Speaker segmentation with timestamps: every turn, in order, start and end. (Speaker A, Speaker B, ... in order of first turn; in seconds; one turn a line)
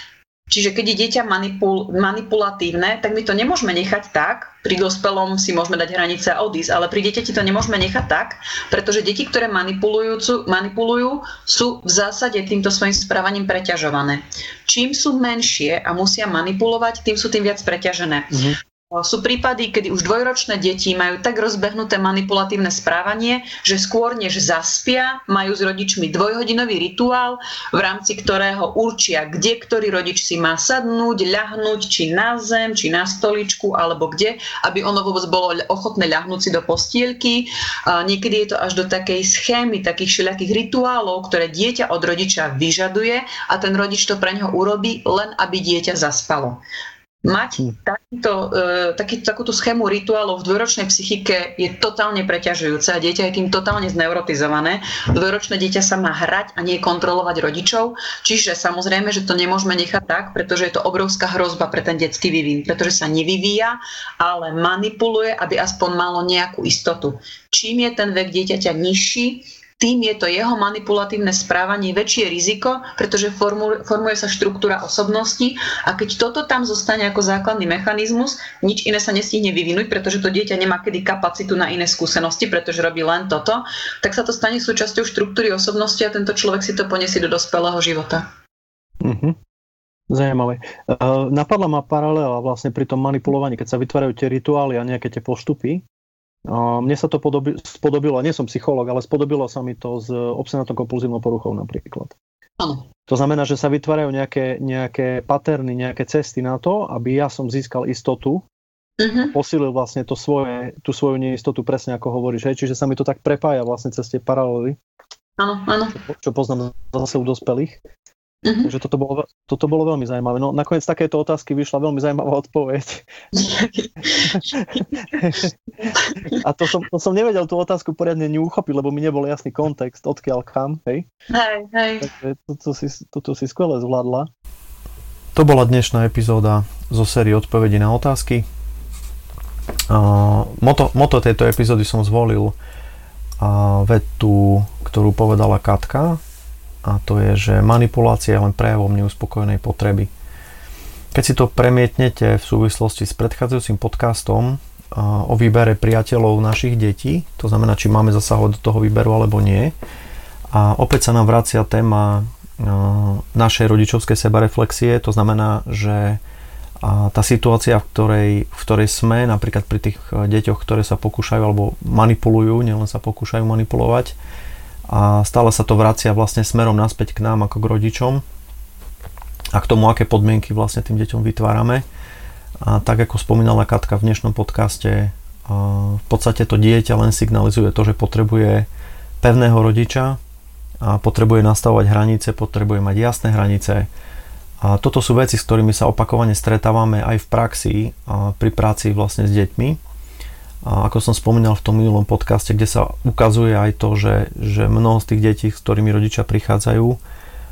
Speaker A: 0.5-46.6
Speaker B: 18.3-18.6
Speaker A: 47.2-88.2
Speaker B: 89.0-89.3
Speaker B: 90.1-95.8
Speaker B: 96.5-102.1
Speaker A: 102.6-102.9
Speaker B: 103.1-108.4
Speaker A: 109.0-109.3
Speaker B: 109.3-114.8
Speaker A: 115.4-116.0
Speaker B: 116.0-117.8
Speaker A: 118.4-118.7
Speaker B: 118.6-123.0
Speaker A: 123.3-124.4
Speaker B: 124.2-125.5
Speaker B: 126.3-131.1
Speaker A: 131.3-132.1
Speaker B: 132.0-134.3
Speaker C: 135.3-138.4
Speaker C: 139.9-142.5
Speaker C: 143.4-146.2
Speaker C: 146.8-150.1
Speaker C: 151.1-159.7
Speaker C: 160.5-166.2
Speaker C: 166.8-174.2
Speaker C: 174.9-178.2
Speaker C: 179.5-181.8
Speaker C: 182.6-188.7
Speaker C: 189.2-190.2
Speaker C: 190.8-193.9
Speaker C: 194.6-199.8
Speaker C: 200.6-207.0